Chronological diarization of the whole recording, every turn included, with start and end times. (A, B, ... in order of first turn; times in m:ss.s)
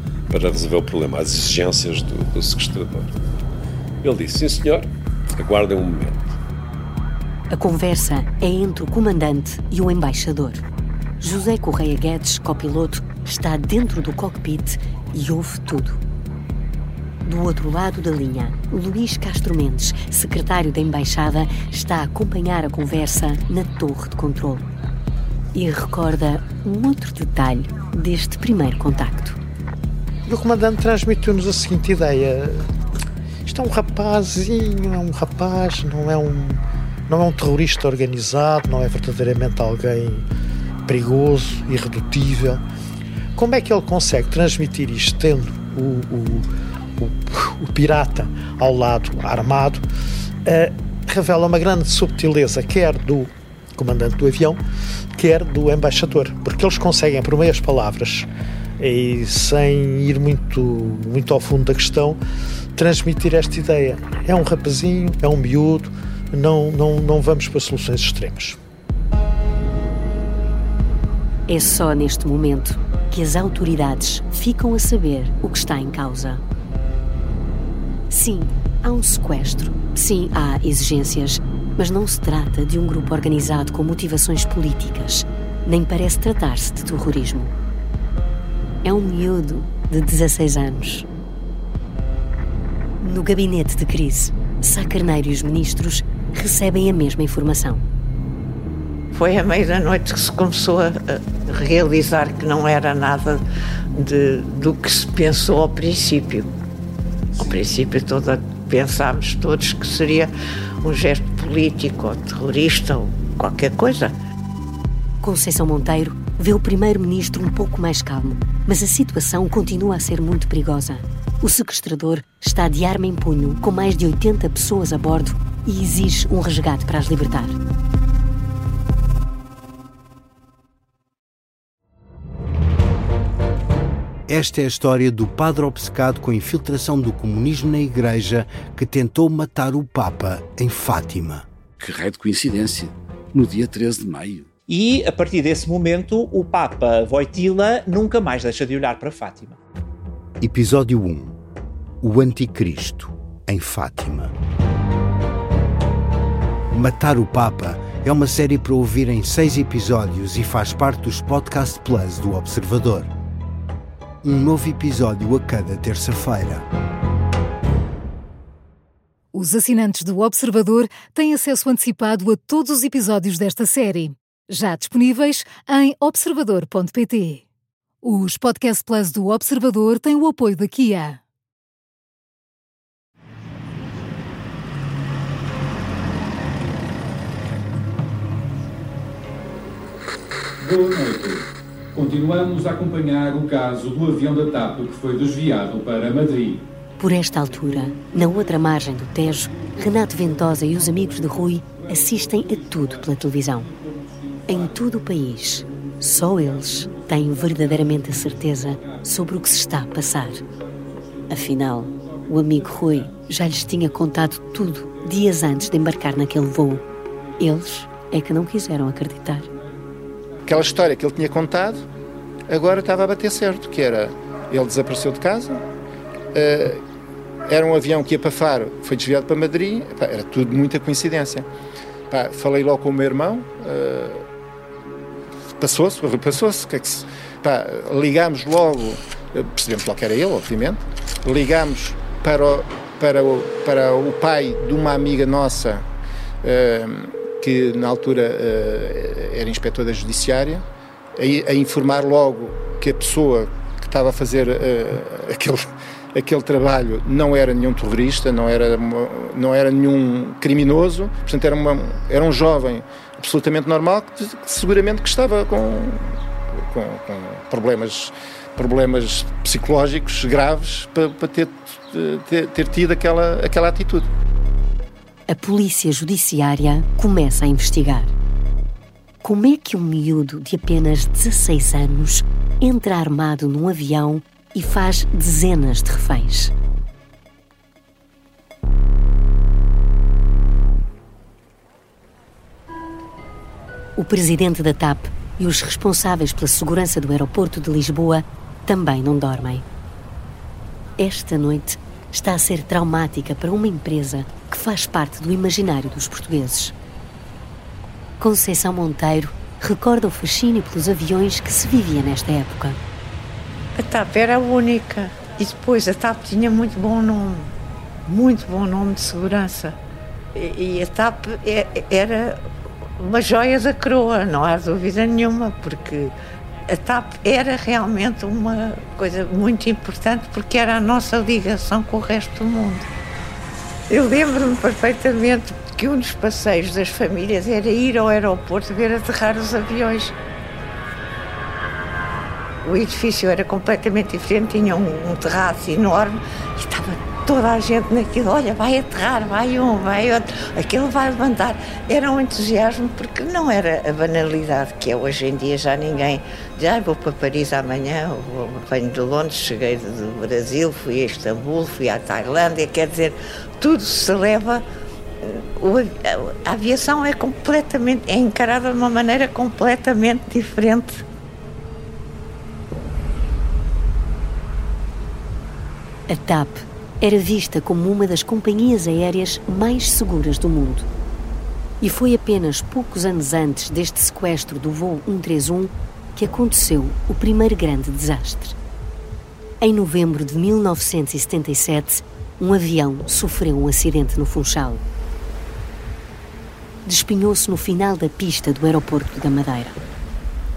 0:00.3-0:03.2 A
0:04.0-0:06.4 A
0:07.5-0:10.6 B
0:11.2-0:16.0 B
0:17.2-0:24.7 B
0:25.5-0:29.4 B
0:30.3-0:32.7 C
0:33.4-0:40.3 C
0:40.9-0:42.6 C
0:43.4-0:49.8 C
0:50.4-0:54.6 C
0:55.2-1:02.2 C
1:02.8-1:08.6 C
1:11.5-1:16.4 B
1:18.1-1:27.5 B
1:28.8-1:31.1 B
1:33.0-1:37.8 B
1:39.1-1:43.4 D
1:43.9-1:46.5 D
1:47.4-1:50.3 D
1:50.8-1:54.1 D
1:55.2-2:07.6 B
2:14.3-2:21.5 E
2:21.8-2:24.5 F
2:24.7-2:29.6 G
2:30.4-2:31.4 E
2:32.0-2:34.4 E
2:36.7-2:43.1 E
2:44.2-2:46.7 E
2:49.3-2:57.4 H
2:58.0-3:01.2 H
3:10.6-3:16.7 I
3:17.0-3:23.7 B
3:18.0-3:18.3 I
3:19.5-3:24.9 I
3:24.5-3:30.4 B
3:25.6-3:29.5 I
3:30.3-3:36.1 I
3:31.3-3:36.8 B
3:37.4-3:39.5 B
3:40.5-3:41.8 J
3:42.5-3:45.6 J
3:46.3-3:46.8 J
3:47.5-3:51.5 J
3:52.1-3:54.2 J
3:55.6-4:05.8 J
4:06.4-4:10.6 J
4:11.2-4:34.1 J
4:35.3-4:38.1 B
4:39.2-4:46.5 B
4:54.0-4:59.6 B
5:01.0-5:06.7 B
5:08.2-5:12.8 B
5:13.8-5:17.5 D
5:18.1-5:19.8 D
5:20.3-5:22.4 D
5:23.0-5:26.2 D
5:26.7-5:32.9 D
5:33.9-5:40.2 D
5:42.6-6:04.6 D
6:05.2-6:11.1 D
6:16.1-6:20.9 B
6:21.8-6:28.6 B
6:29.6-6:34.8 B
6:36.8-6:39.8 B